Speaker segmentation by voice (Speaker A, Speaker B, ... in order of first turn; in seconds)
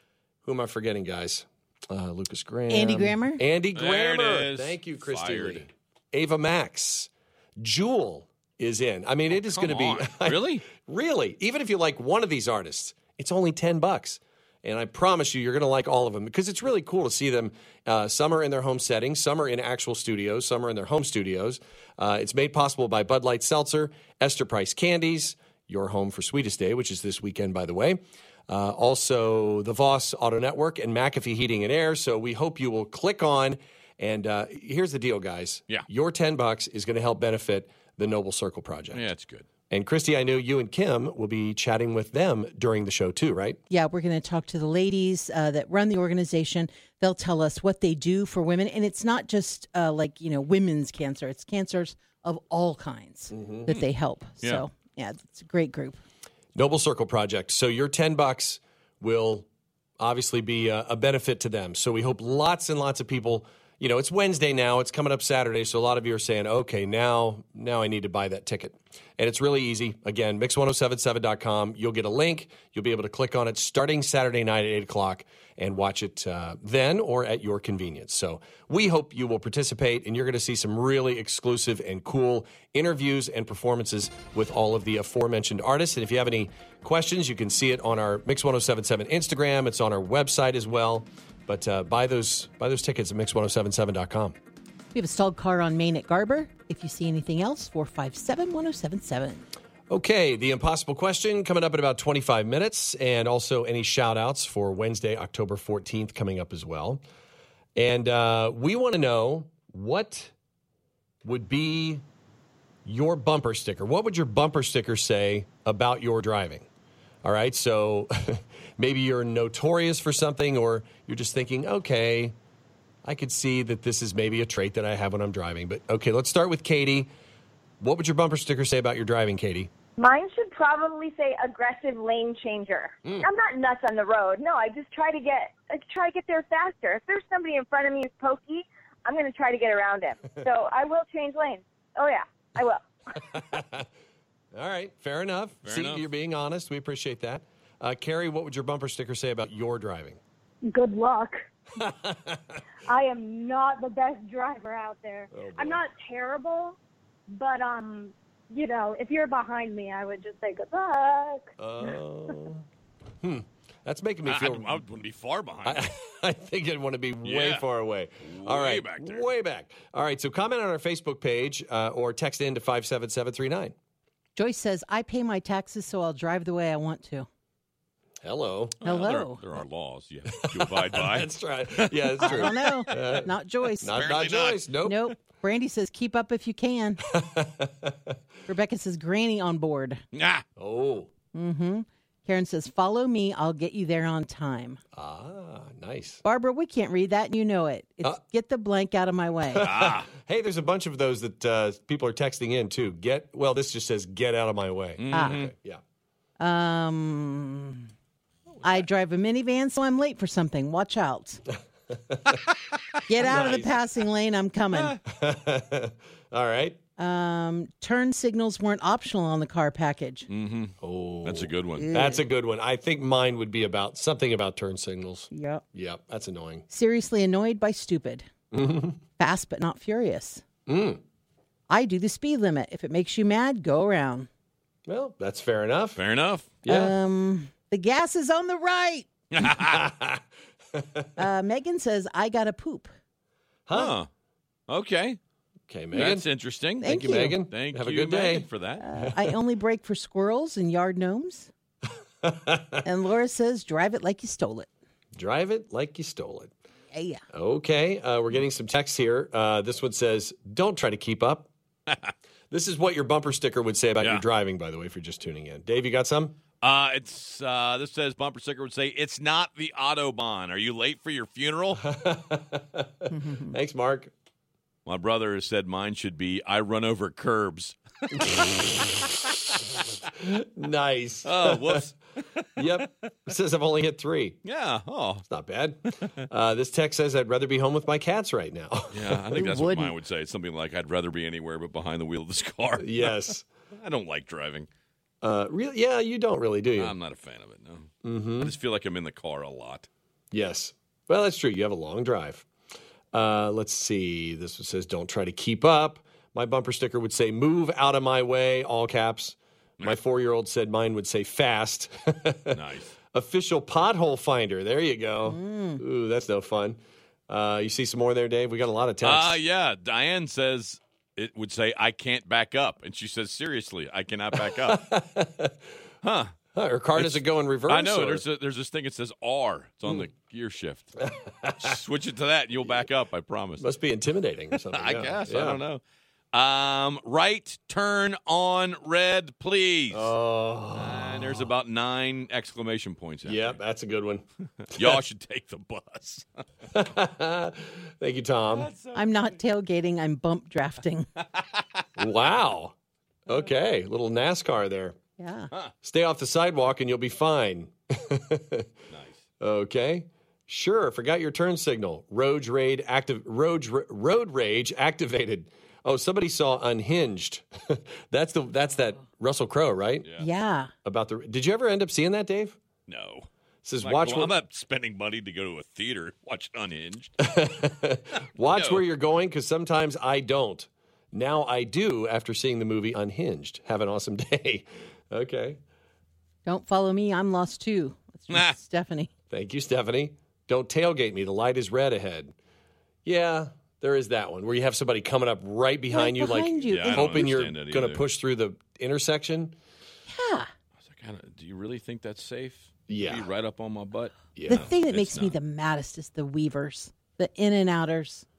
Speaker A: 0.4-39.1, 39.7-43.6, 53.3-53.7, 56.5-59.5, 60.0-94.3, 99.9-107.0, 107.8-110.3, 111.2-112.0, 112.8-116.7, 117.2-122.3, 123.0-127.1, 127.8-129.7, 143.2-143.9, 144.5-150.2, 151.8-152.6, 155.3-155.8, 161.6-162.6, 163.2-164.8, 165.6-173.7, 178.2-178.8, 180.5-183.3, 183.8-185.0, 187.1-188.1, 190.6-191.1, 194.9-196.2, 199.5-205.8, 211.9-212.3, 213.2-213.8, 215.0-216.8, 220.8-226.7, 228.5-229.0, 230.7-231.0, 234.9-236.0, 236.6-236.9, 239.4-240.2, 240.7-241.1, 243.7-244.0, 245.7-246.3, 246.8-248.5, 252.2-252.8, 255.2-256.5, 257.3-261.5, 262.5-266.4, 271.8-274.1, 278.2-278.6, 280.2-281.8, 282.6-284.4, 285.3-289.8, 292.8-293.4, 295.2-296.9, 298.0-298.5, 300.3-302.4, 303.1-319.4, 324.4-325.6, 326.5-328.2, 331.0-331.7, 333.6-335.6, 339.9-341.5, 343.2-344.2, 346.7-348.7, 352.0-352.7, 353.3-355.0, 355.8-358.7, 359.4-370.1, 370.8-372.6, 373.6-374.3, 377.2-385.6, 389.3-392.3, 393.0-399.6, 402.9-403.3, 404.3-404.6
Speaker B: 2.7-3.4, 43.7-56.0, 94.9-99.4, 174.3-177.3, 178.8-179.4, 182.2-183.9, 184.8-187.0, 188.5-190.0, 191.3-194.8, 196.2-199.7, 205.1-205.4, 206.4-207.9, 208.6-211.4, 213.1-215.0, 217.0-220.3, 221.7-222.2, 225.3-225.6, 226.7-228.3, 229.2-230.4, 231.7-234.3, 236.7-239.1, 241.2-242.9, 246.8-247.4, 248.8-251.5, 252.8-254.7, 256.9-257.2, 273.1-273.5, 315.3-315.8, 348.9-351.1, 355.2-355.5, 370.2-370.7, 386.4-389.1, 395.9-397.3, 400.1-400.5, 404.5-408.2
Speaker C: 3.7-5.7, 9.3-10.6, 38.9-39.5, 145.6-146.0, 164.2-165.9, 167.2-167.7, 168.2-169.3, 178.8-183.1, 183.9-184.7, 190.1-190.4, 199.6-200.1, 205.0-205.5, 220.3-221.9, 235.9-236.6, 239.3-239.8, 243.7-244.1, 244.7-245.2, 245.9-248.8, 266.6-271.8, 274.9-277.8, 281.2-282.9, 284.4-285.2, 288.9-293.2, 293.8-294.7, 296.7-297.9, 298.4-299.9, 312.5-312.9, 319.0-324.8, 326.0-326.3, 326.9-330.9, 331.6-333.6, 334.7-335.8, 336.3-340.1, 340.7-343.6, 344.7-346.3, 348.5-349.3, 351.4-351.8, 358.9-359.2, 372.9-373.3, 373.8-377.1, 378.5-378.8, 396.6-398.0, 400.8-405.3
Speaker D: 130.0-142.8, 150.7-151.3, 152.9-156.8, 157.3-160.1, 160.7-161.4
Speaker E: 150.7-151.3, 153.1-155.2, 158.0-160.9